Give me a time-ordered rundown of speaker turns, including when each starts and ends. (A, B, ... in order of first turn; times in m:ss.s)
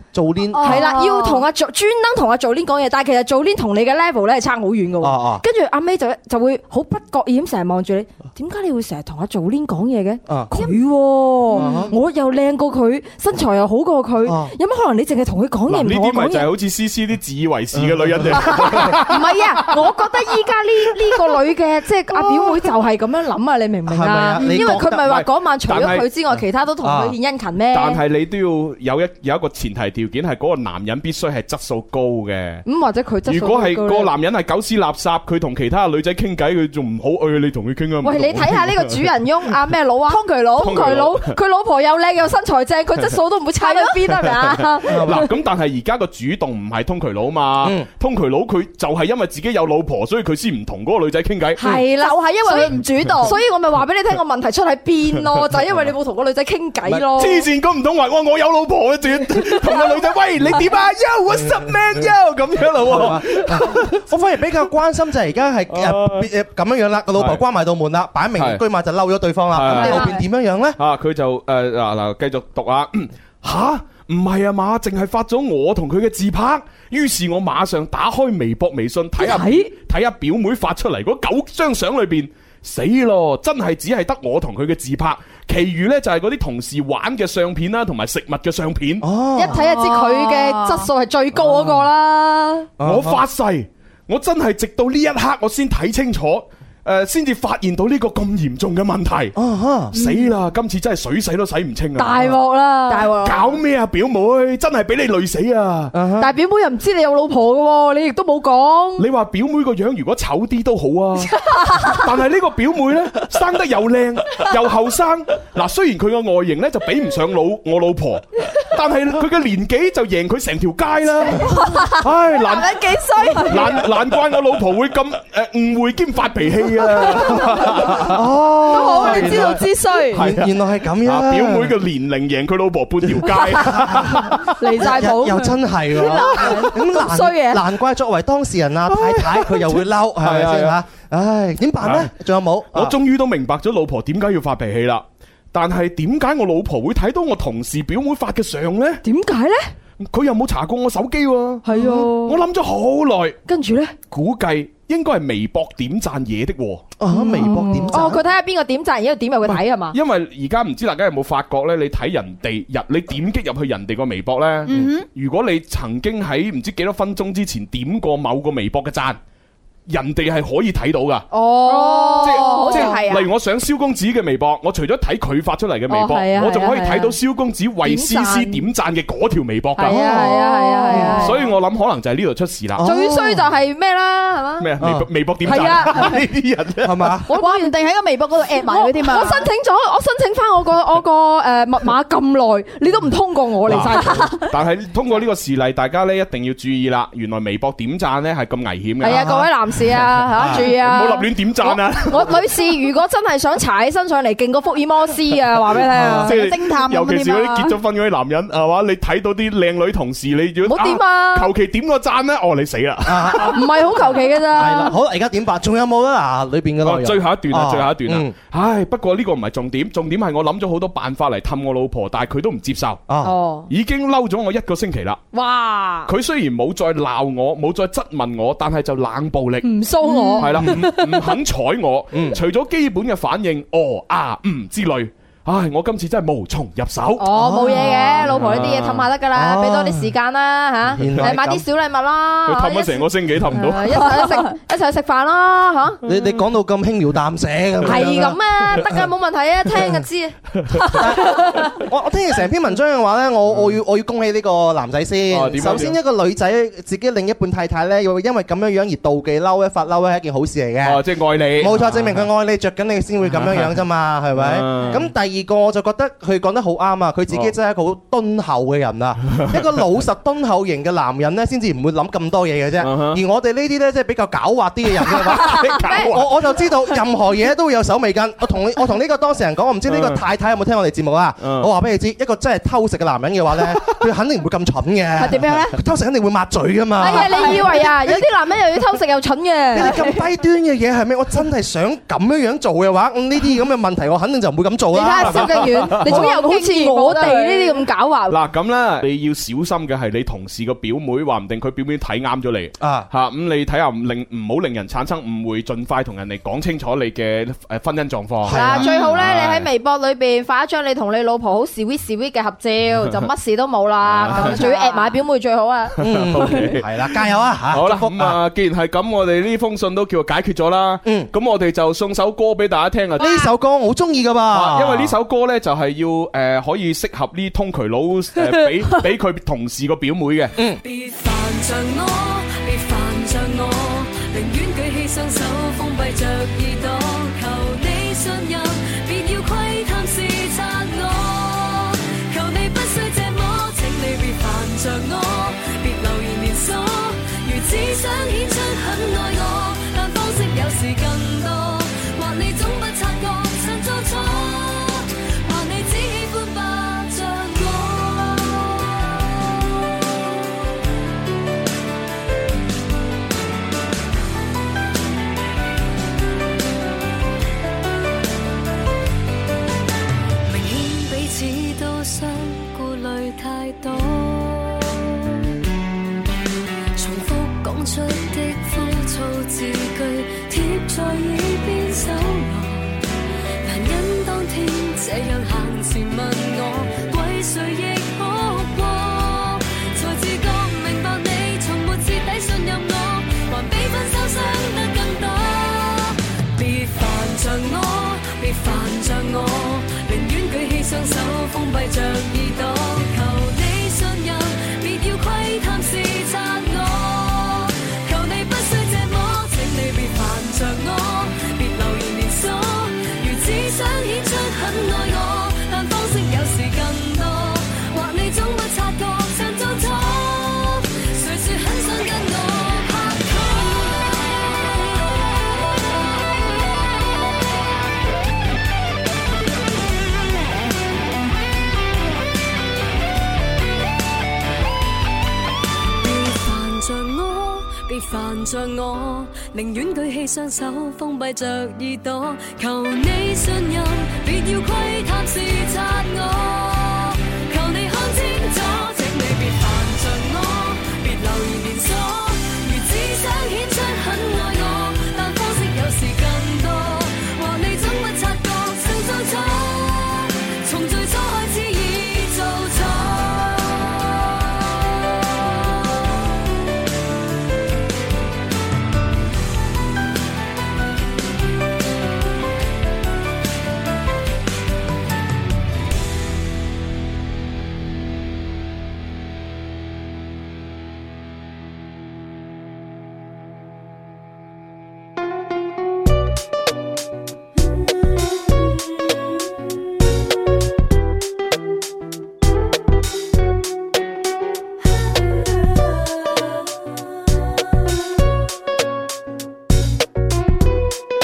0:00.1-0:01.0 A
0:00.5-0:16.5 B
0:00.6-0:01.4 C
0:05.0-0:05.4 A
0:10.3-0:10.5 A
0:11.5-0:12.0 A
0:14.3-0:14.5 A
0:15.7-0:19.6 D
0:18.5-0:28.0 B
0:23.9-0:25.1 A
0:24.4-0:26.1 D
0:26.8-0:27.2 A
0:27.7-0:32.6 D
0:32.6-0:34.1 B
0:33.3-0:39.1 D
0:38.0-0:45.3 B
0:40.1-0:40.9 C
0:40.6-0:41.4 D
0:43.6-0:44.0 C
0:44.2-0:51.6 D
0:44.9-0:45.3 A
0:47.6-0:47.9 A
0:51.6-0:57.5 B
0:51.6-0:53.4 C
0:56.9-1:04.0 D
0:59.3-0:59.9 B
1:01.4-1:01.7 A
1:02.8-1:10.8 A
1:05.7-1:06.3 D
1:07.2-1:07.4 D
1:08.4-1:08.6 D
1:09.5-1:10.1 D
1:09.6-1:10.1 B
1:10.8-1:29.1 D
1:19.2-1:19.7 B
1:29.0-1:29.9 A
1:29.4-1:32.7 B
1:29.8-1:30.8 C
1:32.8-1:33.2 A
1:32.8-1:39.3 D
1:39.4-1:39.9 A
1:39.9-1:42.4 D
1:42.0-1:43.5 B
1:42.9-1:43.3 C
1:43.2-1:46.0 D
1:45.9-1:46.3 A
1:46.2-1:49.0 B
1:49.0-2:08.2 D
1:51.3-1:52.1 B
2:01.3-2:03.9 B
2:02.8-2:03.4 C
2:06.9-2:08.0 B
2:07.5-2:11.8 A
2:08.7-2:10.3 B
2:09.0-2:09.5 D
2:10.1-2:10.5 D
2:11.0-2:14.5 D
2:13.2-2:22.9 A
2:14.5-2:17.6 B
2:18.9-2:20.8 D
2:21.8-2:22.1 D
2:22.7-2:29.0 D
2:29.0-2:29.7 B
2:30.0-2:33.4 D
2:31.6-2:32.4 B
2:31.7-2:32.1 A
2:33.5-2:34.0 B
2:34.1-2:36.9 D
2:37.0-2:38.2 A
2:37.1-2:40.0 B
2:39.4-2:49.2 D
2:44.7-2:45.1 C
2:49.9-2:51.3 D
2:51.3-2:53.0 B
2:51.6-2:53.3 C
2:52.2-3:00.3 D
2:55.9-2:57.2 B
2:57.8-2:58.6 B
2:59.8-3:01.5 B
2:59.9-3:01.3 A
3:00.8-3:01.1 C
3:01.0-3:02.9 D
3:02.8-3:03.4 A
3:02.8-3:04.7 B
3:04.6-3:07.2 D
3:04.8-3:06.3 A
3:05.4-3:06.2 B
3:06.8-3:07.3 A
3:07.3-3:09.5 C
3:07.3-3:07.7 B
3:08.6-3:14.5 B
3:13.7-3:14.2 A
3:13.7-3:22.4 D
3:19.0-3:26.3 B
3:19.0-3:19.5 A
3:20.4-3:20.7 A
3:25.9-3:26.3 A
3:26.2-3:33.7 D
3:26.2-3:27.8 C
3:30.6-3:31.5 B
3:33.0-3:34.0 A
3:33.4-3:34.9 B
3:34.5-3:38.3 A
3:36.8-3:43.0 D
3:43.1-3:43.4 A
3:43.2-3:43.7 B
3:43.7-3:45.2 D
3:45.3-3:46.1 B
3:46.1-3:49.7 D
3:49.6-3:51.4 B
3:50.3-3:50.8 A
3:50.4-3:57.3 D
3:52.1-3:52.4 A
3:57.2-4:06.0 B
3:57.3-3:58.7 A
3:58.0-3:59.1 D
3:59.3-4:00.1 A
4:00.9-4:01.6 A
4:01.0-4:01.4 D
4:02.4-4:04.2 D
4:06.0-4:08.9 A
4:07.8-4:11.8 B
4:07.8-4:08.1 D
4:10.6-4:11.0 D
4:10.9-4:21.0 A
4:13.5-4:13.8 D
4:15.3-4:16.0 D
4:20.8-4:22.3 D
4:21.6-4:48.6 A
4:23.3-4:23.7 D
4:24.4-4:25.1 D
4:32.8-4:33.2 D
4:35.0-4:36.3 D
4:35.8-4:36.0 B
4:39.9-4:40.2 D
4:41.4-4:41.7 D
4:45.2-4:45.8 C
4:47.0-4:50.2 B
4:47.0-4:47.7 C
4:49.7-4:56.2 A
4:54.9-4:57.8 C
4:55.0-4:58.4 B
4:55.3-4:56.2 D
4:58.3-5:09.7 D
5:02.8-5:03.1 A
5:08.4-5:09.0 A
5:08.5-5:16.7 B
5:13.0-5:13.3 D
5:14.0-5:14.6 D
5:14.4-5:15.2 C
5:16.0-5:17.2 D
5:16.0-5:18.4 A
5:17.7-5:23.3 D
5:23.2-5:25.2 A
5:24.5-5:30.6 D
5:30.8-5:59.5 E
6:10.4-6:15.1 E
6:17.0-6:23.0 E
6:23.6-7:04.3 E
7:16.0-7:44.1 E
8:08.4-8:09.0 E
8:15.2-8:16.6 E